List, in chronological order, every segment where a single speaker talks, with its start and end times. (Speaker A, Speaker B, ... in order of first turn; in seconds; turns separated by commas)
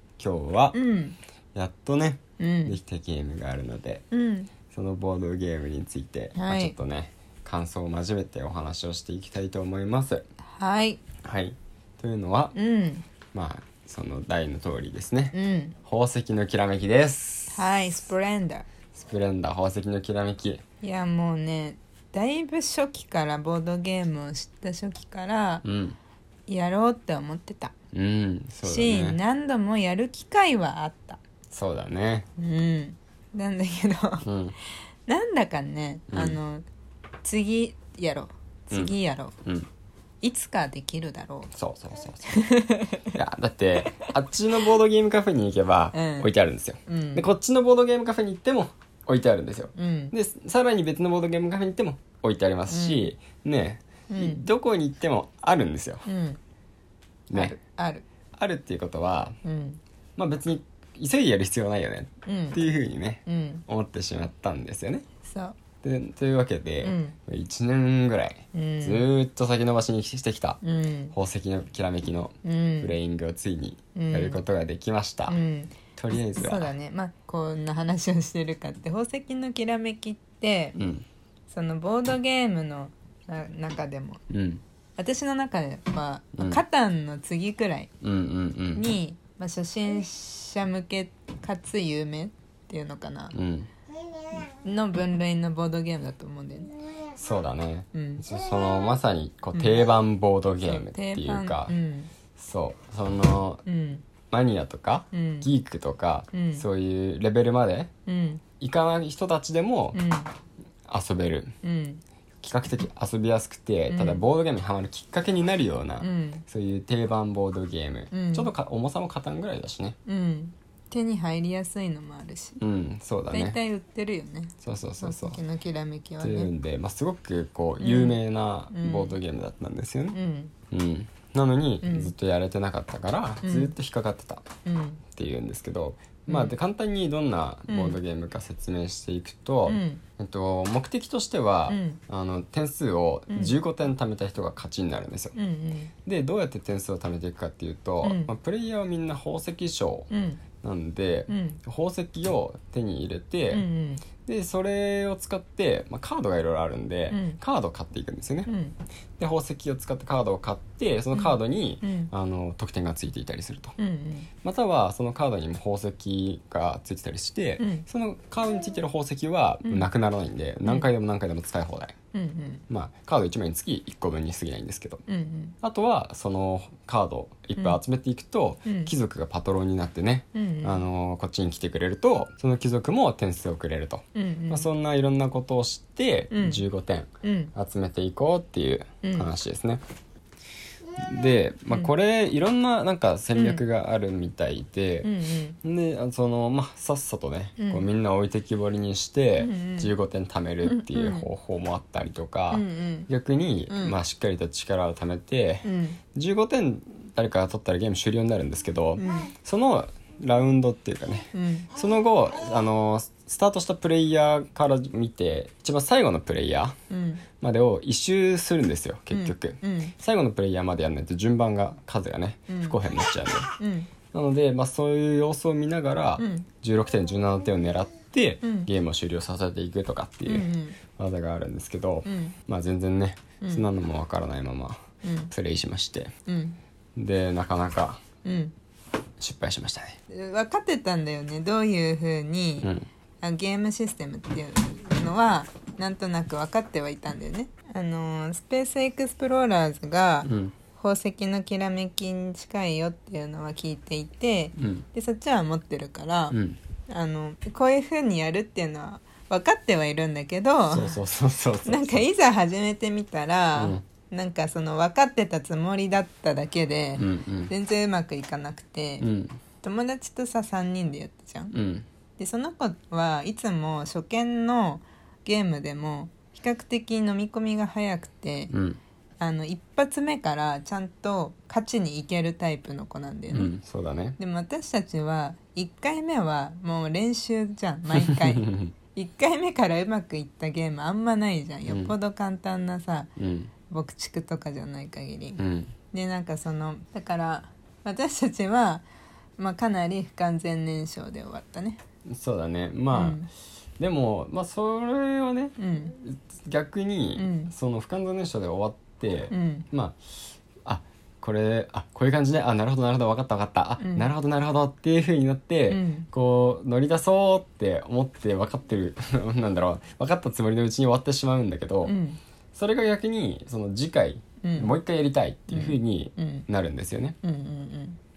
Speaker A: 0.2-0.8, Speaker B: 0.7-1.2, Speaker A: 1.5-4.0, Speaker B: 2.4-2.8, Speaker B: 4.1-4.5, Speaker A: 4.7-10.2, Speaker B: 6.3-6.7, Speaker B: 10.6-11.0, Speaker A: 11.2-12.5, Speaker B: 12.5-13.0, Speaker A: 13.3-17.7, Speaker B: 15.3-15.7, Speaker B: 17.5-18.6, Speaker A: 18.9-20.6, Speaker B: 20.8-25.6, Speaker A: 25.6-26.0, Speaker B: 26.5-27.7, Speaker A: 27.9-29.2, Speaker B: 28.6-31.2, Speaker A: 31.5-32.3, Speaker B: 32.4-34.2, Speaker A: 34.2-34.5, Speaker B: 35.1-36.6, Speaker A: 36.1-36.4, Speaker B: 37.2-39.3, Speaker A: 38.7-39.7, Speaker B: 40.2-41.5, Speaker A: 41.5-42.3, Speaker B: 42.2-43.1, Speaker A: 43.1-56.0, Speaker B: 43.8-44.1, Speaker B: 45.9-46.3, Speaker B: 46.9-47.2, Speaker B: 49.8-50.1, Speaker B: 52.7-53.1, Speaker B: 54.1-54.4, Speaker B: 56.0-56.4, Speaker A: 57.3-57.5, Speaker B: 57.3-58.0, Speaker A: 58.4-59.4, Speaker B: 59.4-59.8, Speaker A: 60.2-65.0, Speaker B: 62.2-62.6, Speaker B: 63.2-63.6, Speaker B: 65.2-65.5, Speaker A: 65.8-70.6, Speaker B: 66.8-67.2, Speaker B: 68.5-69.0, Speaker B: 70.6-71.1, Speaker A: 71.1-75.4, Speaker B: 72.4-72.9, Speaker B: 73.9-74.4, Speaker B: 75.3-75.8, Speaker A: 76.0-76.7, Speaker B: 76.3-80.7, Speaker A: 80.8-81.0, Speaker B: 81.5-84.2, Speaker A: 84.3-84.6, Speaker B: 85.0-87.9, Speaker A: 86.3-86.6, Speaker A: 88.0-88.9, Speaker B: 88.8-93.3, Speaker A: 93.3-93.7, Speaker B: 94.3-96.8, Speaker A: 97.1-101.7, Speaker B: 97.9-98.2, Speaker B: 99.5-99.9, Speaker B: 100.6-102.1, Speaker A: 102.3-103.6, Speaker B: 103.7-104.0, Speaker A: 104.3-107.9, Speaker B: 105.1-105.5, Speaker B: 106.3-106.6, Speaker B: 108.0-108.4, Speaker A: 108.6-110.0, Speaker B: 109.9-110.3, Speaker A: 110.9-111.5, Speaker B: 111.6-112.0, Speaker A: 112.4-120.0, Speaker B: 113.9-114.2, Speaker B: 116.0-116.4, Speaker B: 118.1-118.5, Speaker B: 120.0-122.6, Speaker A: 122.6-123.6, Speaker B: 123.3-126.5, Speaker A: 124.6-125.4, Speaker A: 126.2-130.2, Speaker B: 127.8-128.2, Speaker B: 128.7-129.2, Speaker B: 130.1-130.5, Speaker A: 130.7-134.4, Speaker B: 131.8-132.1, Speaker B: 133.4-133.7, Speaker B: 134.6-135.0, Speaker A: 135.1-145.3, Speaker B: 137.7-138.0, Speaker B: 139.7-140.0, Speaker B: 141.7-142.0, Speaker B: 145.3-145.9, Speaker A: 146.1-150.1, Speaker B: 148.0-148.3, Speaker B: 150.1-150.4, Speaker A: 150.6-153.7, Speaker B: 151.3-151.6, Speaker B: 153.5-154.0, Speaker A: 154.2-158.5, Speaker B: 157.1-157.4, Speaker B: 158.5-158.8, Speaker A: 159.2-163.8, Speaker B: 161.1-162.1, Speaker B: 163.8-164.3, Speaker A: 164.4-171.9, Speaker B: 167.6-167.8, Speaker B: 172.1-172.6, Speaker A: 172.7-175.0, Speaker B: 175.1-175.5, Speaker A: 175.6-189.8, Speaker B: 178.6-178.9, Speaker B: 180.3-180.8, Speaker B: 184.1-184.7, Speaker B: 186.3-186.6, Speaker B: 187.2-187.5, Speaker B: 189.0-189.3, Speaker A: 190.9-195.1, Speaker B: 193.3-193.6, Speaker B: 195.0-195.6, Speaker A: 195.6-216.8, Speaker B: 197.6-197.9, Speaker B: 199.4-199.9, Speaker B: 200.6-201.3, Speaker B: 202.5-203.1, Speaker B: 203.7-204.0, Speaker B: 205.6-206.0, Speaker B: 209.0-209.3, Speaker B: 211.3-211.7, Speaker B: 216.9-217.2, Speaker A: 217.4-223.5, Speaker B: 219.1-219.9, Speaker B: 222.5-222.8, Speaker B: 223.6-223.9, Speaker A: 224.1-236.1, Speaker B: 226.2-226.5, Speaker B: 228.4-228.7, Speaker B: 230.3-230.8, Speaker B: 232.0-232.4, Speaker B: 235.0-235.3, Speaker B: 236.3-236.6, Speaker A: 236.9-238.0, Speaker B: 238.2-238.5, Speaker A: 239.2-240.0, Speaker B: 240.1-256.4, Speaker A: 250.2-250.5, Speaker A: 254.6-254.8, Speaker A: 256.3-256.6, Speaker B: 256.9-261.0, Speaker A: 260.7-262.1, Speaker B: 261.6-269.1, Speaker A: 263.5-263.8, Speaker A: 267.0-267.5, Speaker A: 269.0-269.4, Speaker B: 269.6-271.6, Speaker A: 271.5-271.8, Speaker B: 272.2-278.5, Speaker A: 278.5-278.8, Speaker B: 279.2-283.5, Speaker A: 283.3-284.2, Speaker B: 284.2-293.1, Speaker A: 287.9-288.7, Speaker A: 291.7-291.9, Speaker A: 293.2-293.5, Speaker B: 293.7-295.4, Speaker A: 295.4-295.7, Speaker B: 295.9-298.9, Speaker B: 299.4-301.8, Speaker A: 302.1-303.2, Speaker B: 302.9-303.3, Speaker A: 303.8-310.0, Speaker B: 305.6-305.9, Speaker B: 307.1-307.5, Speaker B: 309.3-309.6, Speaker A: 310.6-321.9, Speaker B: 313.8-314.1, Speaker B: 315.7-316.1, Speaker B: 321.9-322.2, Speaker A: 322.5-327.2, Speaker B: 324.4-324.7, Speaker B: 325.5-326.4, Speaker B: 327.2-328.0